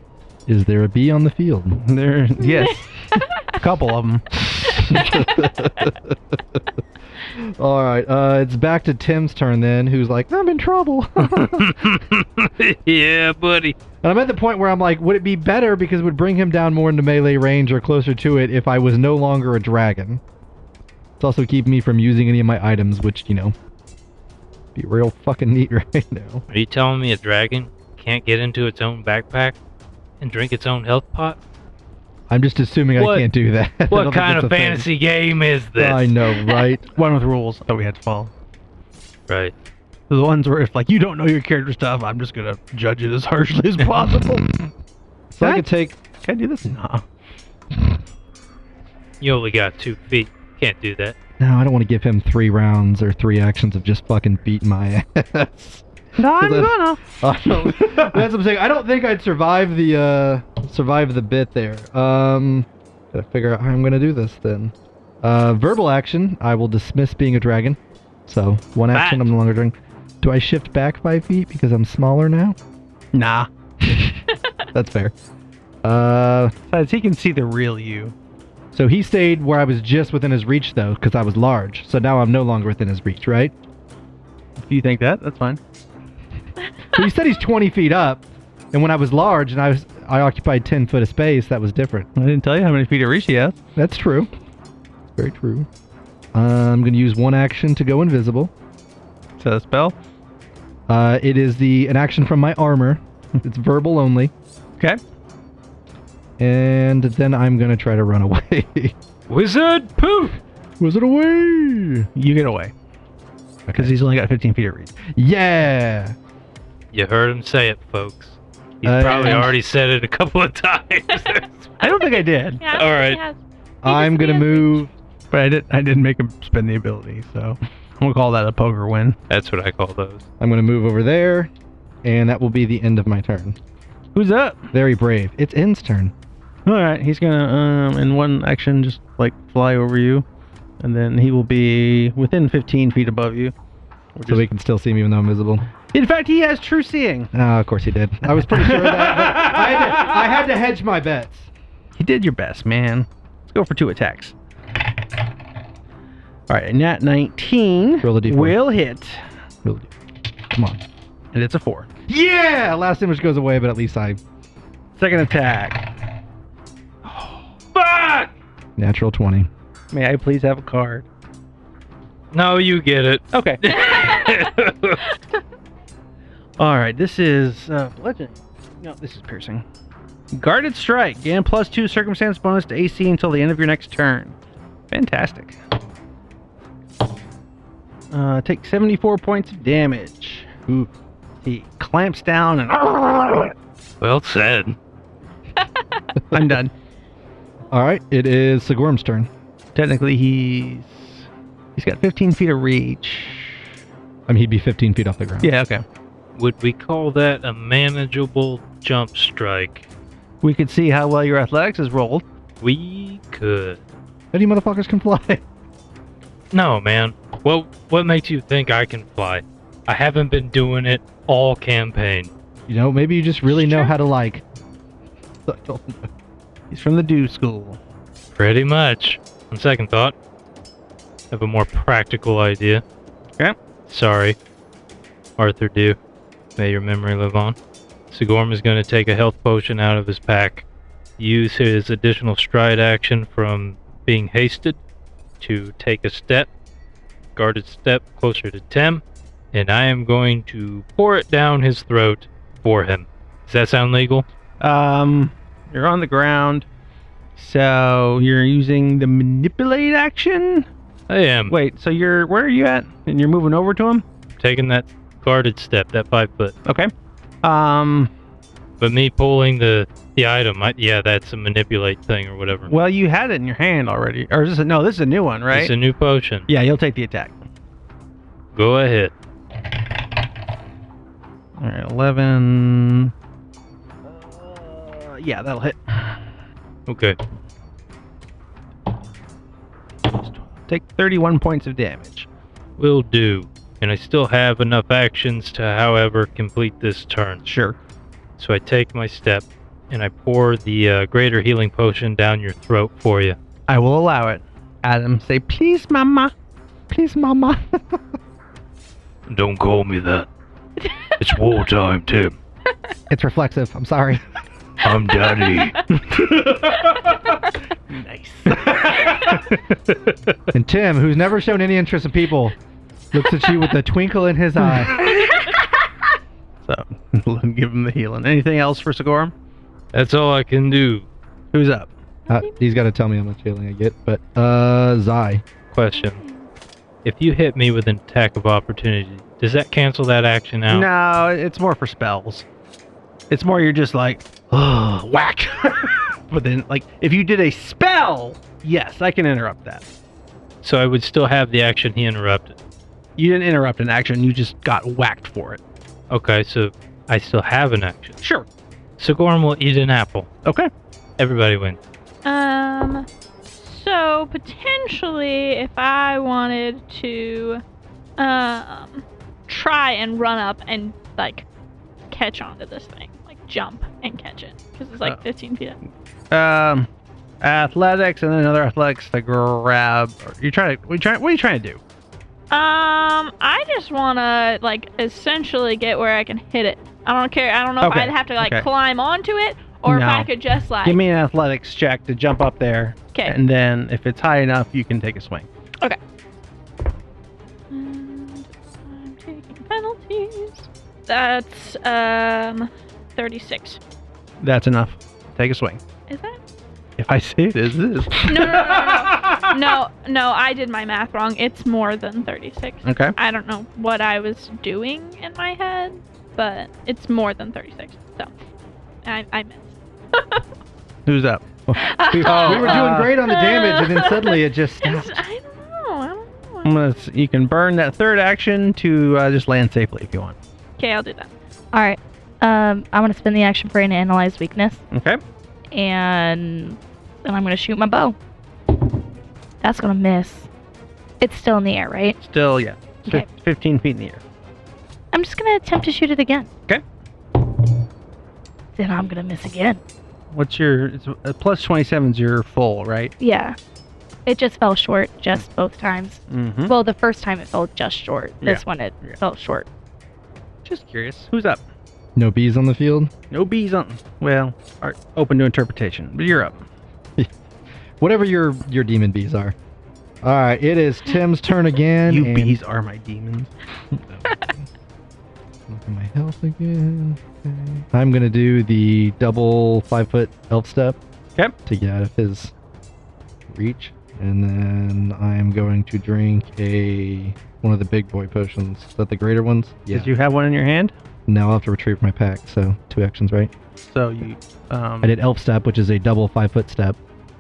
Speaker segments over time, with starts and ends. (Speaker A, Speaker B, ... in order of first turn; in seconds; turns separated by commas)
Speaker A: 0.5-1.8, Speaker B: 1.8-2.9, Speaker C: 2.4-3.6, Speaker B: 3.4-5.0, Speaker A: 4.7-6.6, Speaker C: 4.8-5.5, Speaker A: 7.3-11.8, Speaker D: 11.2-13.8, Speaker A: 14.0-20.2, Speaker A: 21.2-23.6, Speaker A: 24.7-26.4, Speaker D: 26.5-29.6, Speaker D: 30.2-31.4, Speaker A: 32.3-34.9, Speaker D: 33.0-33.3, Speaker D: 33.9-36.2, Speaker A: 35.8-36.9, Speaker B: 36.9-38.3, Speaker B: 40.1-44.5, Speaker A: 45.3-46.0, Speaker B: 45.4-45.7, Speaker B: 46.2-47.0, Speaker D: 49.2-51.2, Speaker A: 51.4-72.6, Speaker B: 56.2-58.1, Speaker B: 68.9-69.3, Speaker B: 73.1-73.5, Speaker A: 74.7-75.1, Speaker A: 75.8-76.5, Speaker B: 76.7-78.1, Speaker A: 78.7-83.5, Speaker B: 84.6-85.6, Speaker A: 86.9-92.1, Speaker B: 92.2-93.5, Speaker A: 93.8-94.3, Speaker A: 95.2-95.7, Speaker A: 96.3-98.5, Speaker B: 99.4-100.0, Speaker A: 100.9-104.3, Speaker A: 106.4-109.0, Speaker D: 109.3-110.4, Speaker A: 110.8-112.1, Speaker B: 112.2-112.7, Speaker A: 113.7-113.9, Speaker B: 113.7-114.9, Speaker A: 115.1-116.1, Speaker D: 116.9-121.5, Speaker A: 118.8-119.5, Speaker C: 121.1-124.9, Speaker B: 121.8-122.6, Speaker D: 122.7-123.2, Speaker A: 123.8-124.9, Speaker B: 125.3-129.2, Speaker D: 129.3-130.2, Speaker A: 130.4-131.5, Speaker A: 132.0-133.6, Speaker B: 134.1-134.7, Speaker A: 134.7-136.1, Speaker B: 136.7-140.2, Speaker B: 140.8-143.5, Speaker B: 144.1-144.5, Speaker A: 144.3-145.6, Speaker B: 145.9-147.3, Speaker A: 147.3-151.5, Speaker B: 148.4-150.2, Speaker B: 151.9-154.3, Speaker B: 156.5-159.2, Speaker A: 158.0-158.6, Speaker A: 159.6-159.9, Speaker A: 160.5-160.8, Speaker B: 161.3-161.9, Speaker A: 162.1-164.2, Speaker B: 165.0-165.9, Speaker B: 167.1-167.4, Speaker D: 167.7-168.3, Speaker A: 168.8-169.5, Speaker B: 169.9-171.1, Speaker D: 172.3-175.1, Speaker B: 173.3-173.6, Speaker C: 173.8-174.4, Speaker B: 176.6-179.6, Speaker B: 180.3-184.4, Speaker B: 184.9-185.6, Speaker B: 188.1-190.5, Speaker B: 191.4-193.5, Speaker D: 194.0-194.8, Speaker B: 196.3-196.7, Speaker A: 197.7-199.3, Speaker B: 199.7-201.2, Speaker B: 201.8-203.6, Speaker A: 204.3-205.5, Speaker B: 205.4-205.8, Speaker D: 206.4-209.8, Speaker B: 210.4-212.2, Speaker D: 212.6-213.8, Speaker A: 214.3-215.4, Speaker D: 216.5-222.3, Speaker A: 222.7-224.4, Speaker A: 225.4-226.1, Speaker B: 226.7-227.8, Speaker D: 228.3-230.1, Speaker D: 231.3-232.8, Speaker D: 233.9-234.4, Speaker D: 235.4-236.0, Speaker D: 236.6-237.6, Speaker D: 238.1-240.6, Speaker D: 241.2-244.8, Speaker D: 245.4-246.5, Speaker D: 247.4-254.2, Speaker B: 254.6-256.7, Speaker B: 257.4-260.7, Speaker D: 261.1-261.6, Speaker B: 261.5-264.1, Speaker D: 264.4-266.6, Speaker B: 266.6-266.9, Speaker B: 267.4-268.1, Speaker D: 268.8-272.7, Speaker B: 272.7-275.7, Speaker D: 275.5-276.5, Speaker B: 276.5-277.4, Speaker D: 278.5-279.1, Speaker B: 281.6-283.1, Speaker B: 284.1-286.2, Speaker D: 286.9-287.2, Speaker B: 290.1-292.3, Speaker D: 292.8-297.4, Speaker B: 297.4-297.8, Speaker D: 298.4-303.4, Speaker B: 303.7-306.3, Speaker A: 306.9-308.0, Speaker D: 309.3-310.3, Speaker C: 310.8-311.1, Speaker D: 311.2-312.3, Speaker A: 313.1-314.2, Speaker D: 314.8-316.6, Speaker B: 317.9-319.1, Speaker D: 319.9-320.3, Speaker A: 320.5-322.6, Speaker A: 323.1-324.9, Speaker B: 326.6-329.3, Speaker D: 329.9-331.1, Speaker B: 331.5-331.9, Speaker C: 332.2-332.6, Speaker A: 332.3-335.4, Speaker D: 335.7-336.2, Speaker C: 335.9-336.5, Speaker D: 337.1-340.9, Speaker B: 340.7-342.4, Speaker B: 343.3-349.9, Speaker D: 350.6-352.6, Speaker B: 353.2-355.6, Speaker D: 356.1-358.2, Speaker D: 359.0-360.3, Speaker B: 360.4-360.7, Speaker D: 361.2-361.8, Speaker C: 362.2-367.6, Speaker C: 368.2-371.4, Speaker C: 372.1-375.8, Speaker B: 376.3-376.9, Speaker B: 377.4-381.8, Speaker C: 382.5-391.0, Speaker B: 387.8-388.7, Speaker B: 389.9-390.3, Speaker B: 390.8-395.5, Speaker C: 397.7-403.8, Speaker B: 404.4-405.8, Speaker C: 406.1-406.4, Speaker B: 407.0-409.6, Speaker C: 408.2-418.3, Speaker B: 412.8-413.1, Speaker C: 419.0-420.4, Speaker B: 421.1-421.4, Speaker A: 421.7-425.2, Speaker C: 421.8-426.7, Speaker B: 422.2-423.1, Speaker B: 426.6-430.4, Speaker C: 430.8-431.3, Speaker E: 431.7-434.8, Speaker B: 434.9-435.2, Speaker E: 435.7-438.2, Speaker E: 439.6-440.5, Speaker E: 441.2-442.2, Speaker B: 442.2-444.2, Speaker E: 445.1-446.5, Speaker E: 448.8-449.8, Speaker B: 450.3-453.1, Speaker E: 453.2-453.6, Speaker E: 454.3-459.7, Speaker B: 456.3-456.8, Speaker B: 458.4-459.2, Speaker B: 460.6-461.6, Speaker A: 462.2-463.1, Speaker B: 463.3-466.6, Speaker A: 468.0-469.6, Speaker A: 470.2-472.6, Speaker B: 472.1-473.5, Speaker A: 473.9-474.5, Speaker A: 475.7-481.0, Speaker A: 481.7-482.5, Speaker A: 483.5-490.1, Speaker B: 489.9-490.9, Speaker A: 491.3-493.5, Speaker B: 493.9-495.1, Speaker A: 495.0-497.0